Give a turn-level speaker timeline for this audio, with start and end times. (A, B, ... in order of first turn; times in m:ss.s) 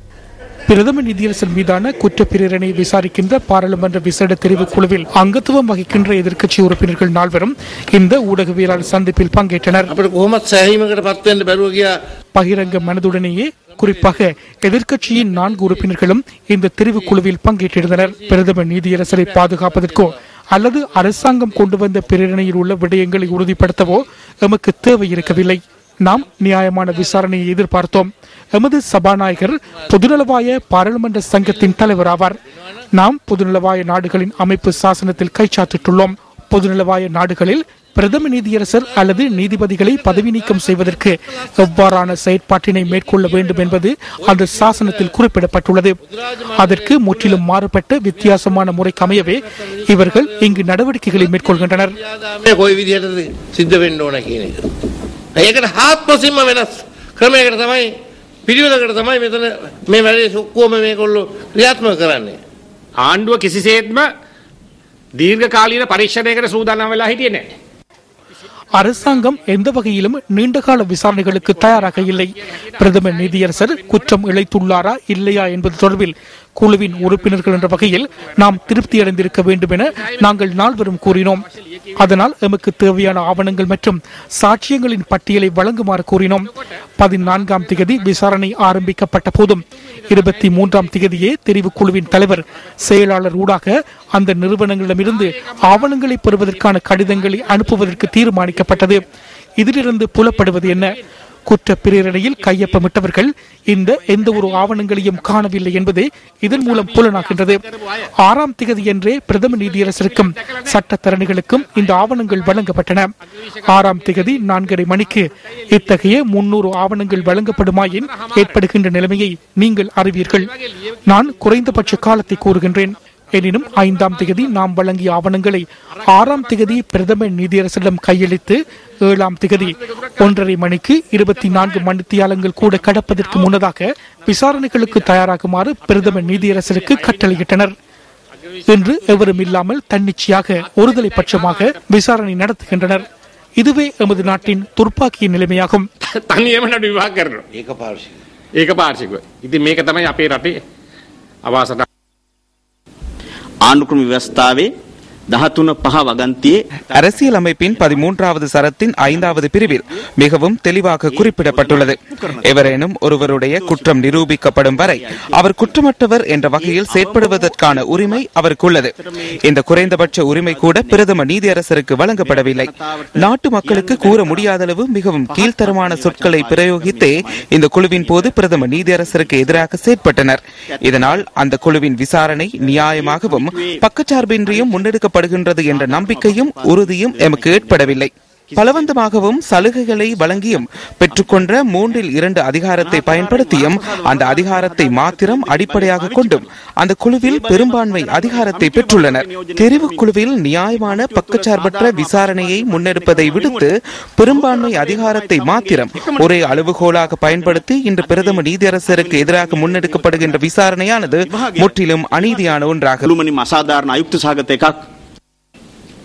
0:00.7-0:09.9 A
0:09.9-0:12.0 B
0:12.3-0:32.4 A
0:32.9-0:52.0 A
0:51.4-0:54.7 B
0:55.3-0:57.9 B
0:58.4-1:02.4 B
1:03.0-1:04.1 C
1:05.2-1:07.5 C
1:08.7-1:21.4 A
1:22.0-1:39.0 A
1:39.6-1:41.0 A
1:41.5-1:47.6 A
1:48.2-1:53.1 A
1:53.7-2:00.5 A
2:01.0-2:17.7 A
2:18.7-2:23.0 A
2:23.6-2:25.9 A
2:26.2-2:27.4 C
2:27.5-2:28.2 B
2:28.6-2:30.6 C
2:31.4-2:31.8 C
2:33.6-2:34.7 D
2:35.3-2:38.0 D
2:36.9-3:33.1 E
2:39.1-2:39.8 D
2:41.1-2:45.8 D
2:46.5-2:48.3 D
2:49.0-2:54.5 D
2:55.2-2:59.7 D
3:00.8-3:01.3 D
3:02.5-3:03.8 D
3:04.4-3:04.9 D
3:05.6-3:09.0 D
3:09.9-3:12.0 D
3:12.8-3:16.5 D
3:17.2-3:23.7 D
3:24.2-3:30.5 D
3:31.1-3:34.8 D